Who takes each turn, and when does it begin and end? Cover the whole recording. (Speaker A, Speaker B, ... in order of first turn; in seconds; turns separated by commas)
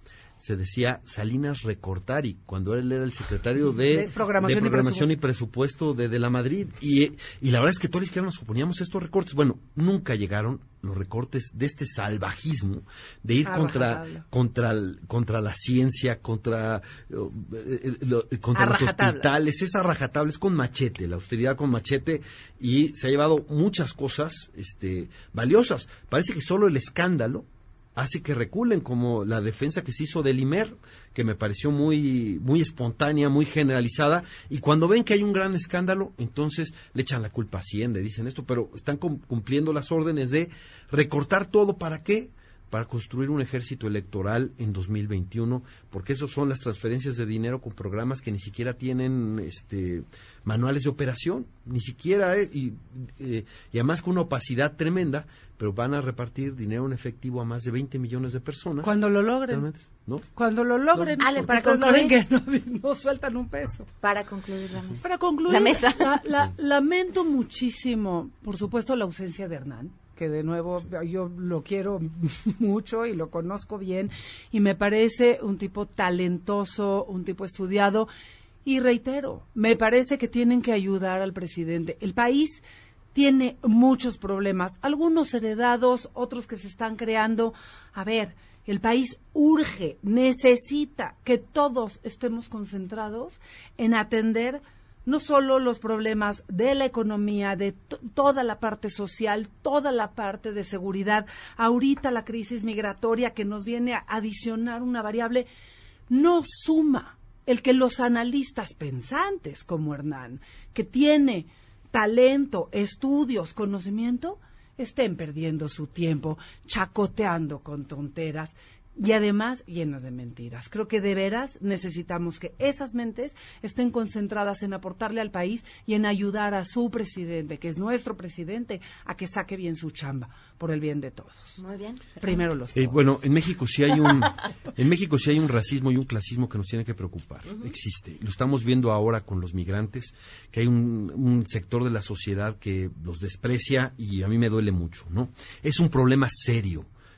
Speaker A: 0.4-59.0, Speaker B: 3.7-5.2, Speaker B: 13.5-14.3, Speaker B: 18.6-19.3, Speaker B: 58.8-59.7, Speaker A: 59.5-60.2, Speaker B: 60.3-63.9, Speaker C: 61.2-62.2, Speaker C: 64.0-66.2, Speaker B: 65.0-78.1, Speaker B: 78.7-82.6, Speaker B: 83.2-105.5, Speaker B: 106.1-131.6, Speaker C: 131.6-132.3, Speaker B: 132.2-133.2, Speaker A: 132.8-146.9, Speaker C: 137.5-137.8